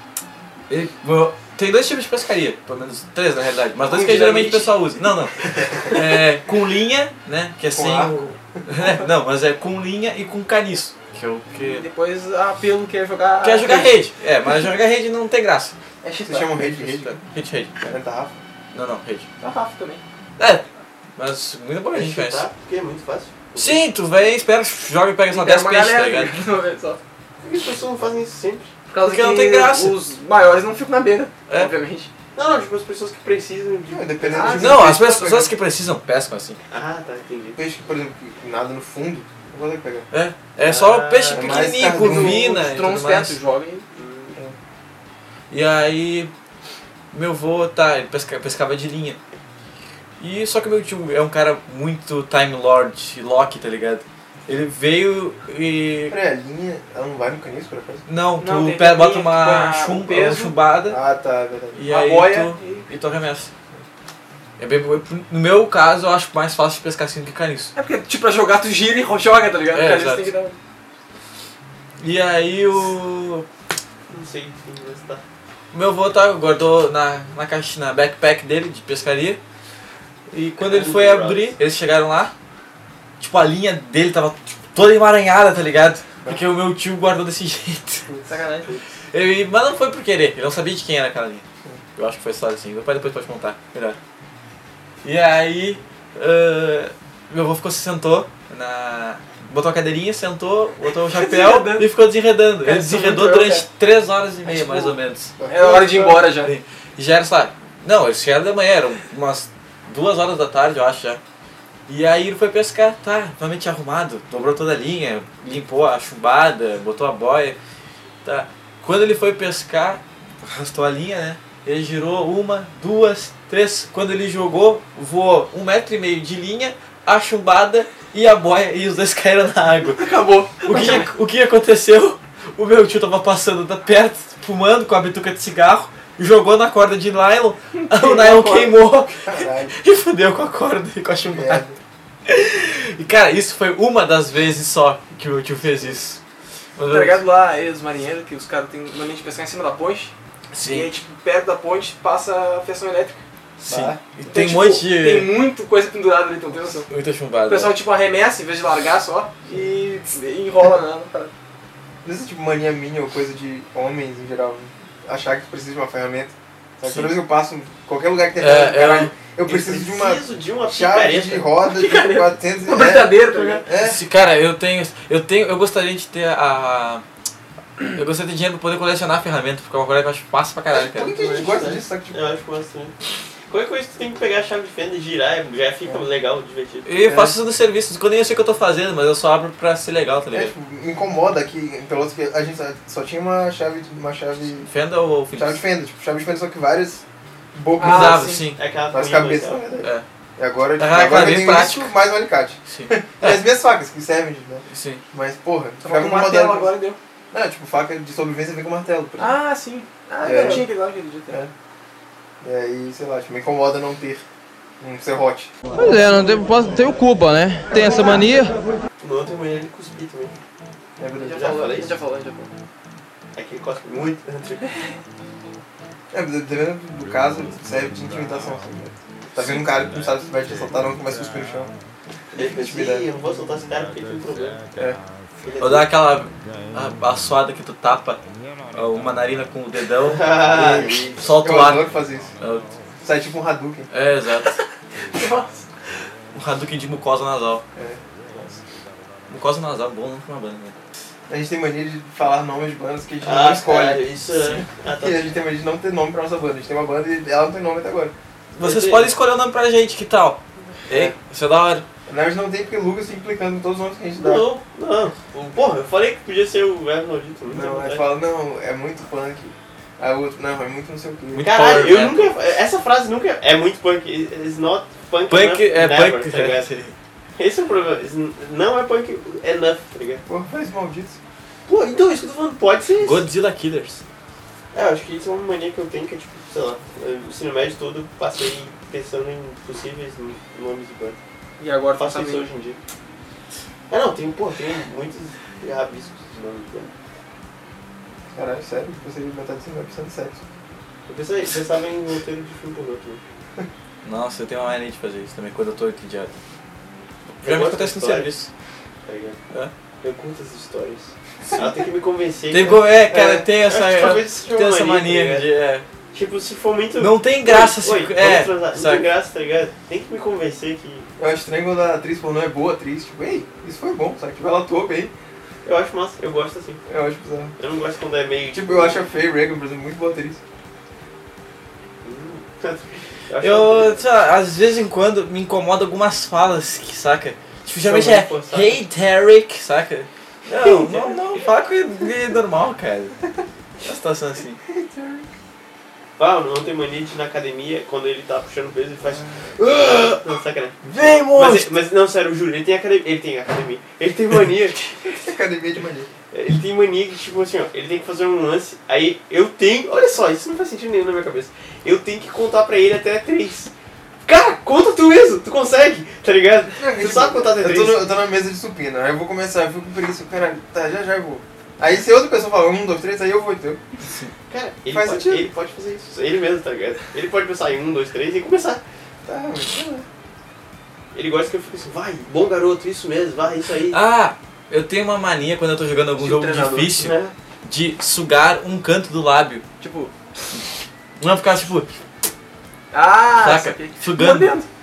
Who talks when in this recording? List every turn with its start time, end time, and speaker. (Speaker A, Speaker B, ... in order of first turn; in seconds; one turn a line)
Speaker A: 0.7-11.9
Speaker B: 3.8-4.8
Speaker C: 7.7-8.3
Speaker B: 11.5-14.0
Speaker A: 13.4-15.8
Speaker B: 16.0-16.5
Speaker C: 16.2-17.2
Speaker A: 16.6-17.7
Speaker C: 17.8-18.4
Speaker A: 18.7-19.3
Speaker B: 19.4-20.0
Speaker A: 20.4-20.6
Speaker A: 21.2-22.4
Speaker D: 21.9-23.8
Speaker A: 23.6-26.4
Speaker B: 25.3-27.0
Speaker D: 27.4-28.7
Speaker B: 28.9-32.1
Speaker A: 29.0-30.0
Speaker D: 32.4-34.6
Speaker C: 33.9-35.4
Speaker B: 34.3-35.4
Speaker A: 34.6-36.6
Speaker D: 36.7-37.6
Speaker C: 37.6-40.1
Speaker A: 40.1-43.4
Speaker D: 40.6-41.8
Speaker C: 41.3-42.5
Speaker B: 41.9-43.9
Speaker D: 43.9-44.4
Speaker A: 45.5-46.3
Speaker A: 47.1-49.2
Speaker A: 50.2-56.2
Speaker C: 56.1-58.0
Speaker A: 58.1-61.0
Speaker B: 58.4-60.5
Speaker C: 60.9-61.9
Speaker A: 61.8-63.5
Speaker B: 61.9-62.9
Speaker A: 64.6-67.7
Speaker B: 67.8-70.6
Speaker A: 69.7-70.3
Speaker A: 72.0-73.5
Speaker D: 74.1-75.2
Speaker A: 75.7-79.4
Speaker A: 80.3-82.3
Speaker D: 80.6-81.6
Speaker A: 83.2-88.1
Speaker B: 88.3-88.7
Speaker A: 89.1-91.5
Speaker A: 92.0-94.0
Speaker A: 95.0-105.3
Speaker B: 101.0-101.9
Speaker B: 102.6-103.7
Speaker B: 104.5-106.5
Speaker C: 105.4-106.3
Speaker A: 106.1-111.2
Speaker A: 111.9-117.6
Speaker A: 118.2-141.7
Speaker B: 130.0-131.1
Speaker B: 137.8-138.8
Speaker C: 139.3-139.8
Speaker C: 141.3-141.8
Speaker A: 142.3-146.2
Speaker A: 146.8-147.2
Speaker B: 146.9-150.1
Speaker A: 150.5-150.9
Speaker B: 150.7-153.2
Speaker A: 153.6-155.4
Speaker C: 153.7-154.0
Speaker B: 154.3-156.9
Speaker A: 156.9-157.8
Speaker B: 157.5-161.3
Speaker C: 162.0-174.0
Speaker A: 166.8-167.2
Speaker A: 168.4-169.1
Speaker D: 169.4-171.5
Speaker B: 171.7-173.7
Speaker D: 173.3-173.7
Speaker A: 173.8-177.0
Speaker A: 177.8-181.1
Speaker C: 180.7-182.2
Speaker D: 181.1-182.9
Speaker D: 183.5-186.9
Speaker A: 186.9-190.5
Speaker C: 187.0-187.4
Speaker C: 190.3-194.7
Speaker A: 194.6-195.6
Speaker C: 195.3-198.3
Speaker B: 197.8-198.5
Speaker A: 197.8-198.6
Speaker D: 198.6-199.8
Speaker C: 198.9-206.8
Speaker A: 200.8-201.9
Speaker A: 202.7-203.4
Speaker A: 204.7-205.0
Speaker B: 205.8-207.0
Speaker C: 207.3-209.4
Speaker B: 209.2-211.4
Speaker C: 210.2-210.7
Speaker C: 212.4-214.2
Speaker C: 214.8-215.5
Speaker E: 215.7-218.6
Speaker C: 217.8-218.0
Speaker D: 219.0-220.4
Speaker C: 221.0-221.8
Speaker B: 221.2-222.5
Speaker D: 221.3-222.0
Speaker D: 223.3-224.7
Speaker C: 226.1-231.7
Speaker A: 229.4-229.6
Speaker C: 232.3-233.1
Speaker D: 232.3-234.7
Speaker C: 234.7-235.0
Speaker D: 235.4-235.9
Speaker A: 235.6-238.2
Speaker A: 238.7-240.5
Speaker D: 240.1-241.2
Speaker C: 240.4-242.3
Speaker A: 241.2-242.7
Speaker C: 243.0-243.9
Speaker A: 243.9-244.6
Speaker B: 245.1-245.7
Speaker A: 246.3-247.6
Speaker C: 247.8-248.6
Speaker A: 249.3-250.8
Speaker C: 251.3-254.1
Speaker D: 253.2-255.3
Speaker A: 254.3-254.6
Speaker C: 254.9-258.1
Speaker A: 258.6-261.9
Speaker D: 258.6-259.1
Speaker C: 260.9-261.2
Speaker C: 262.1-264.4
Speaker D: 264.2-268.1
Speaker C: 267.5-271.5
Speaker A: 271.3-272.4
Speaker D: 271.4-276.7
Speaker A: 275.3-276.9
Speaker D: 277.4-280.2
Speaker C: 280.3-281.2
Speaker D: 281.7-283.2
Speaker A: 283.0-284.0
Speaker D: 284.7-291.2
Speaker B: 291.6-292.5
Speaker D: 292.0-292.8
Speaker D: 293.9-296.9
Speaker C: 298.3-300.4
Speaker D: 301.1-303.2
Speaker A: 304.0-306.3
Speaker A: 307.4-308.5
Speaker D: 307.4-308.3
Speaker D: 309.1-309.4
Speaker D: 310.0-312.9
Speaker A: 312.5-315.9
Speaker C: 313.1-313.5
Speaker D: 313.6-315.5
Speaker D: 316.1-321.1
Speaker A: 317.0-319.1
Speaker C: 321.2-325.1
Speaker D: 325.6-326.8
Speaker C: 326.9-327.6
Speaker D: 327.6-329.1
Speaker C: 328.5-330.4
Speaker D: 332.0-334.0
Speaker A: 333.4-343.2
Speaker D: 337.8-338.8
Speaker A: 343.8-344.6
Speaker C: 344.7-345.3
Speaker D: 346.2-355.3
Speaker A: 350.9-351.8
Speaker C: 355.0-356.1
Speaker D: 356.3-363.7
Speaker D: 364.2-368.1
Speaker C: 366.8-373.8
Speaker A: 374.1-374.3
Speaker D: 374.5-378.8
Speaker C: 374.9-375.5
Speaker C: 379.2-380.1
Speaker D: 381.1-384.0
Speaker A: 383.9-389.6
Speaker B: 386.2-387.0
Speaker D: 387.0-387.3
Speaker B: 389.8-390.1
Speaker A: 391.2-391.9
Speaker B: 392.9-394.7
Speaker A: 393.4-394.5